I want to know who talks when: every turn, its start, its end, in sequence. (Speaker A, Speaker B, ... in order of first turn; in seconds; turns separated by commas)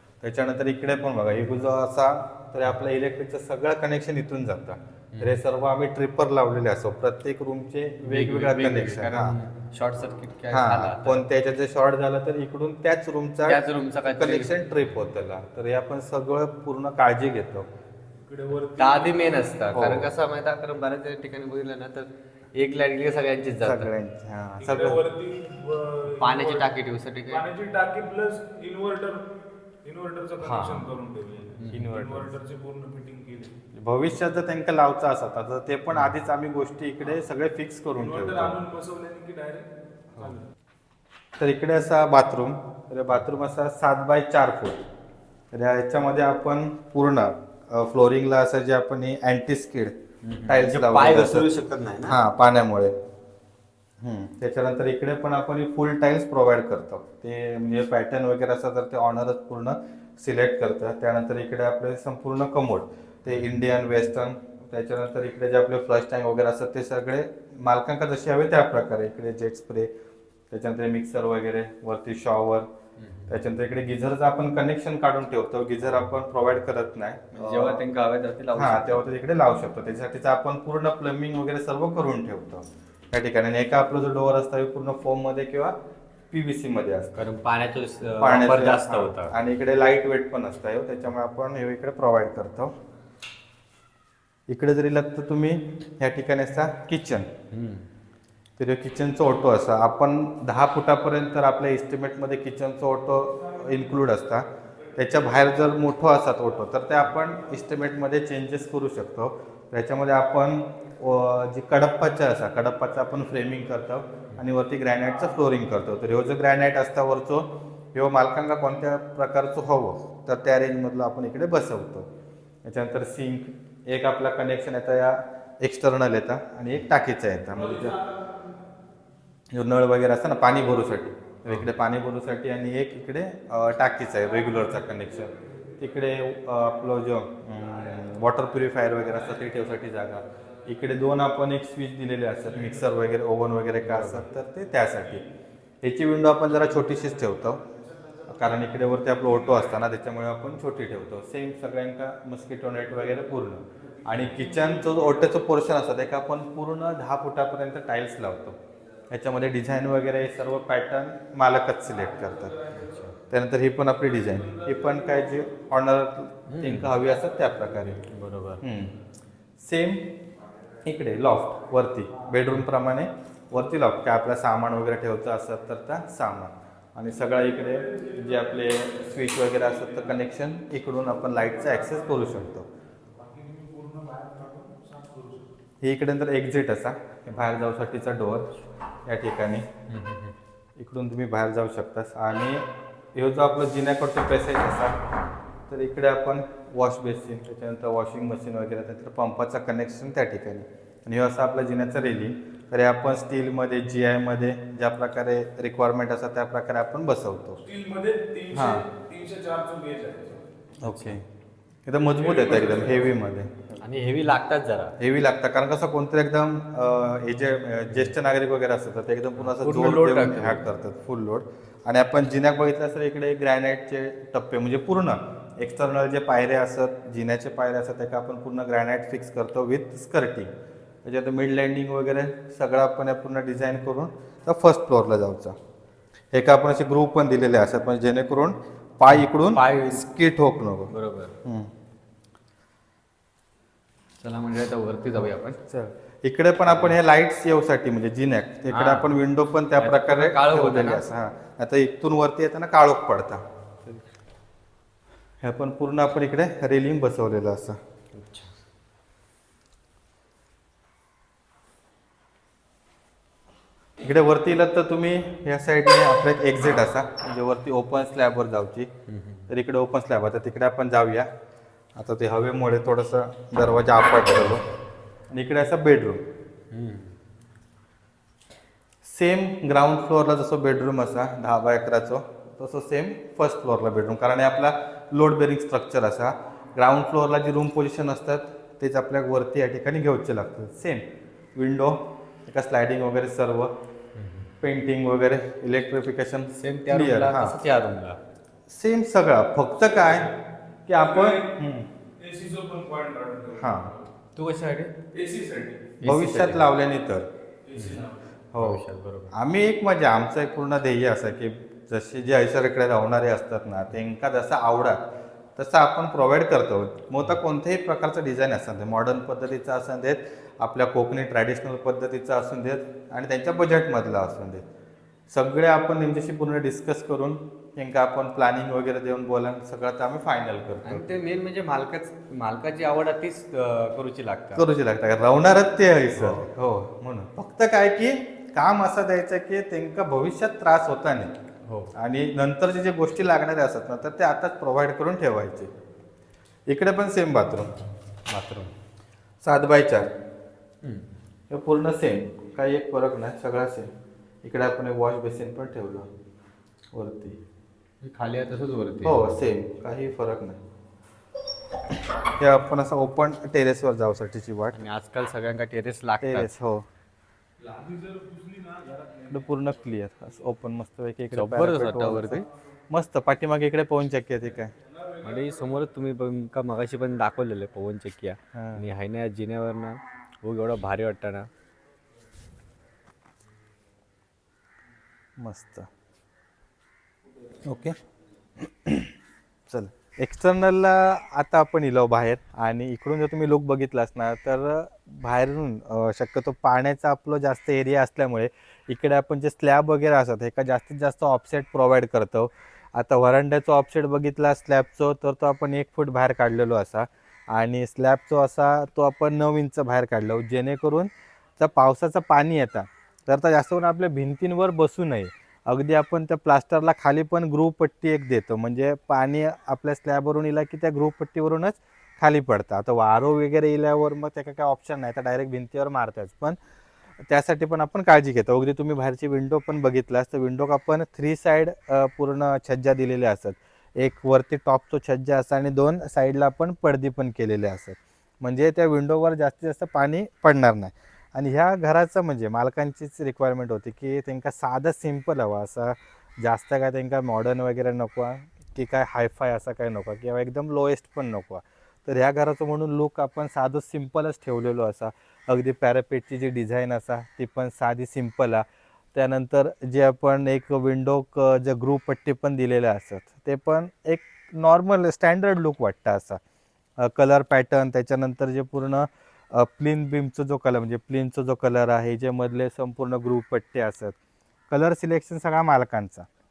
Speaker A: 0.2-9.4, Speaker B: 5.1-5.4, Speaker B: 8.0-11.2, Speaker A: 10.5-17.7, Speaker B: 13.5-14.5, Speaker C: 18.2-19.6, Speaker B: 18.8-23.9, Speaker A: 19.7-20.1, Speaker A: 23.6-25.1, Speaker C: 24.6-26.7, Speaker B: 26.2-27.4, Speaker C: 27.3-33.6, Speaker A: 30.4-30.9, Speaker B: 31.6-31.9, Speaker A: 31.7-32.3, Speaker A: 33.7-38.6, Speaker C: 38.0-40.5, Speaker A: 41.4-44.8, Speaker A: 45.5-51.5, Speaker B: 50.2-52.2, Speaker A: 52.0-53.0, Speaker A: 54.0-69.9, Speaker B: 63.3-63.5, Speaker A: 70.5-72.7, Speaker B: 73.0-73.4, Speaker A: 73.3-77.8, Speaker B: 77.3-79.0, Speaker A: 78.5-85.8, Speaker A: 86.3-87.3, Speaker B: 87.2-89.3, Speaker A: 88.2-92.8, Speaker A: 94.5-97.3, Speaker B: 97.5-97.9, Speaker A: 98.6-122.1, Speaker A: 122.6-128.0, Speaker C: 127.5-128.4, Speaker A: 129.5-145.2, Speaker C: 142.5-142.9, Speaker B: 143.8-144.2, Speaker A: 145.8-147.6, Speaker C: 147.7-148.6, Speaker A: 148.3-162.6, Speaker C: 149.3-149.5, Speaker C: 154.0-155.4, Speaker C: 161.9-163.1, Speaker A: 163.2-168.1, Speaker C: 164.1-165.6, Speaker B: 166.5-166.9, Speaker B: 168.1-168.6, Speaker A: 168.6-169.0, Speaker A: 169.6-170.2, Speaker A: 170.8-182.7, Speaker C: 177.2-180.4, Speaker C: 181.2-182.4, Speaker C: 183.2-185.5, Speaker A: 185.8-189.7, Speaker B: 189.9-190.3, Speaker A: 190.8-195.0, Speaker A: 195.7-207.6, Speaker C: 207.6-210.5, Speaker A: 208.5-208.9, Speaker A: 210.8-211.2, Speaker B: 210.9-211.2, Speaker A: 211.9-213.8, Speaker C: 212.1-213.2, Speaker B: 213.8-214.9, Speaker A: 215.0-230.5, Speaker B: 219.4-220.6, Speaker A: 231.0-235.6, Speaker A: 236.3-240.9, Speaker B: 239.1-240.0, Speaker B: 240.9-241.3, Speaker A: 241.4-241.7, Speaker B: 244.2-245.6, Speaker A: 245.2-253.4, Speaker B: 246.7-247.0, Speaker B: 248.7-249.2, Speaker B: 249.8-251.1, Speaker A: 255.4-257.8, Speaker B: 258.1-258.5, Speaker A: 264.0-268.9, Speaker B: 269.1-269.5, Speaker A: 269.5-271.3, Speaker A: 271.9-274.6, Speaker A: 275.3-276.3, Speaker B: 276.7-277.2, Speaker A: 279.0-293.8, Speaker B: 294.1-294.5, Speaker A: 294.6-297.6, Speaker B: 296.6-298.2, Speaker A: 298.7-300.3, Speaker A: 300.9-301.9, Speaker C: 301.0-301.5, Speaker C: 302.2-304.0, Speaker A: 303.6-303.9, Speaker B: 304.4-304.9, Speaker C: 305.1-305.9, Speaker B: 306.0-306.7, Speaker A: 306.0-307.3, Speaker C: 307.7-308.2, Speaker B: 307.8-308.0, Speaker A: 308.5-324.6, Speaker B: 308.6-309.4, Speaker A: 325.3-331.1, Speaker B: 330.9-334.6, Speaker A: 334.6-341.3, Speaker B: 336.2-336.5, Speaker B: 341.7-341.9, Speaker A: 341.9-345.7, Speaker A: 346.7-347.8, Speaker A: 348.3-348.7, Speaker A: 349.4-350.1, Speaker A: 351.5-353.9, Speaker A: 354.4-356.1, Speaker A: 356.9-357.4, Speaker B: 358.0-359.3, Speaker A: 359.0-360.6, Speaker A: 361.9-364.8, Speaker B: 364.7-366.5, Speaker A: 366.2-366.9, Speaker C: 367.6-369.7, Speaker A: 369.3-374.7, Speaker B: 371.3-372.5, Speaker C: 374.9-375.9, Speaker B: 375.2-381.5, Speaker A: 378.5-378.9, Speaker A: 385.4-385.9, Speaker A: 387.6-388.0, Speaker A: 388.6-389.1, Speaker A: 389.7-426.6, Speaker A: 427.3-466.4, Speaker A: 467.0-474.2, Speaker A: 474.7-476.3